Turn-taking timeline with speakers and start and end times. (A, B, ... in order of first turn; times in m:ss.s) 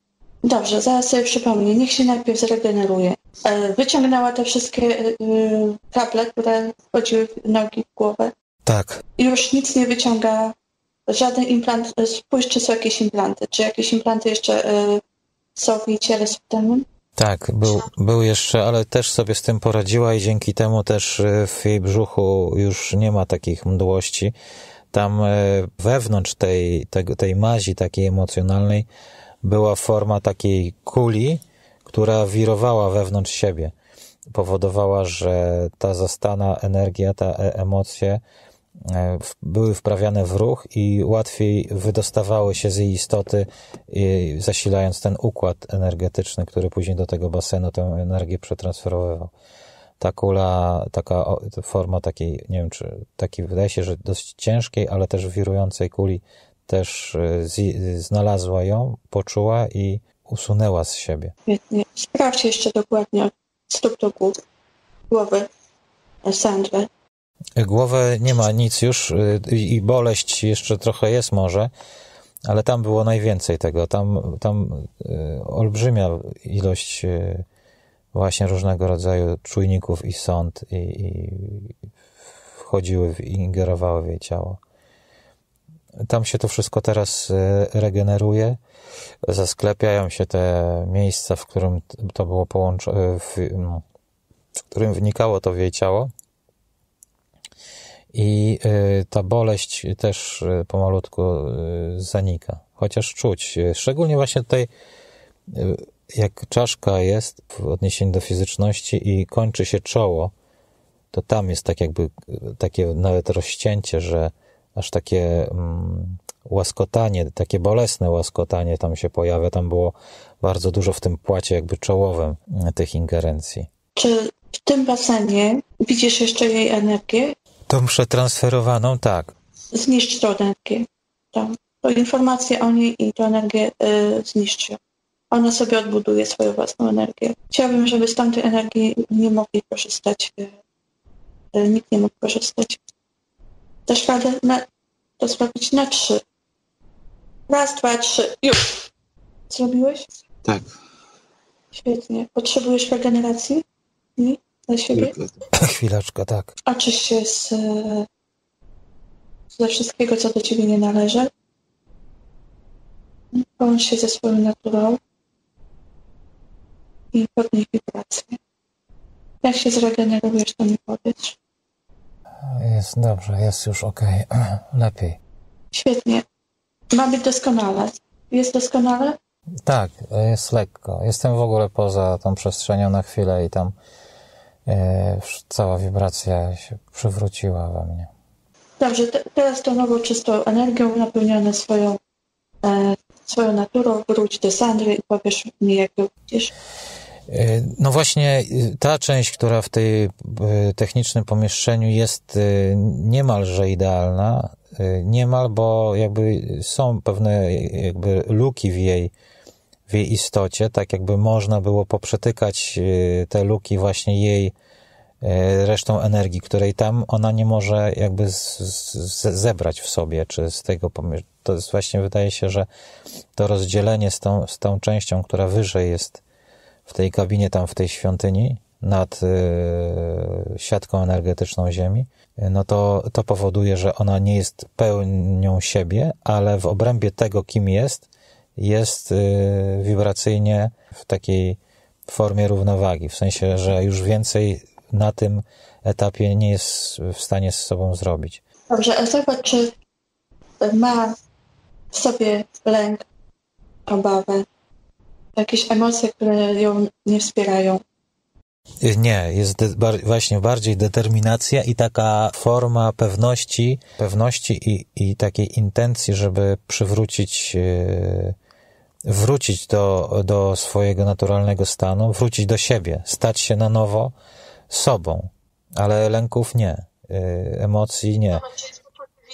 0:00.4-0:08.3 A
0:08.6-0:09.0 B
0:09.2-0:10.5 A
0:11.1-0:15.0 A
0:15.6-0:16.8 A
0:17.2-0:24.3 B
0:24.9-0:28.9 B
0:29.4-0:33.7 B
0:34.3-0:38.2 B
0:38.8-0:49.3 B
0:50.0-1:01.3 B
1:01.5-1:04.4 A
1:05.1-1:05.5 A
1:06.2-1:06.9 A
1:07.6-1:11.7 B
1:12.4-1:17.4 B
1:18.1-1:21.7 B
1:22.6-1:24.6 B
1:26.0-1:28.6 B
1:29.2-1:33.8 B
1:34.7-1:36.1 B
1:38.1-1:44.7 B
1:45.5-1:50.3 B
1:51.1-2:03.7 B
2:04.0-2:07.3 A
2:07.7-2:09.3 B
2:09.7-2:14.8 A
2:15.3-2:20.6 A
2:21.5-2:22.8 A
2:23.9-2:24.6 A
2:25.2-2:26.2 A
2:27.5-2:28.8 A
2:29.5-2:30.1 A
2:30.4-2:30.7 B
2:31.7-2:33.6 A
2:34.2-2:35.1 A
2:34.9-2:36.5 B
2:36.6-2:38.1 A
2:39.5-2:41.3 A
2:43.3-2:45.0 A
2:47.1-2:48.4 A
2:49.4-2:51.4 A
2:52.5-2:55.2 B
2:55.7-2:56.2 A
2:56.9-2:59.2 A
2:59.6-3:03.7 B
3:04.6-3:08.1 B
3:08.8-3:12.0 A
3:12.6-3:16.5 A
3:17.3-3:29.1 B
3:29.9-3:34.5 B
3:35.2-3:42.7 B
3:43.4-3:46.2 B
3:46.8-4:08.4 B
4:08.7-4:09.7 A
4:10.6-4:11.2 A
4:11.9-4:13.0 A
4:13.8-4:14.4 A
4:15.4-4:17.8 A
4:18.8-4:28.4 B
4:29.0-4:34.1 B
4:34.7-4:38.5 B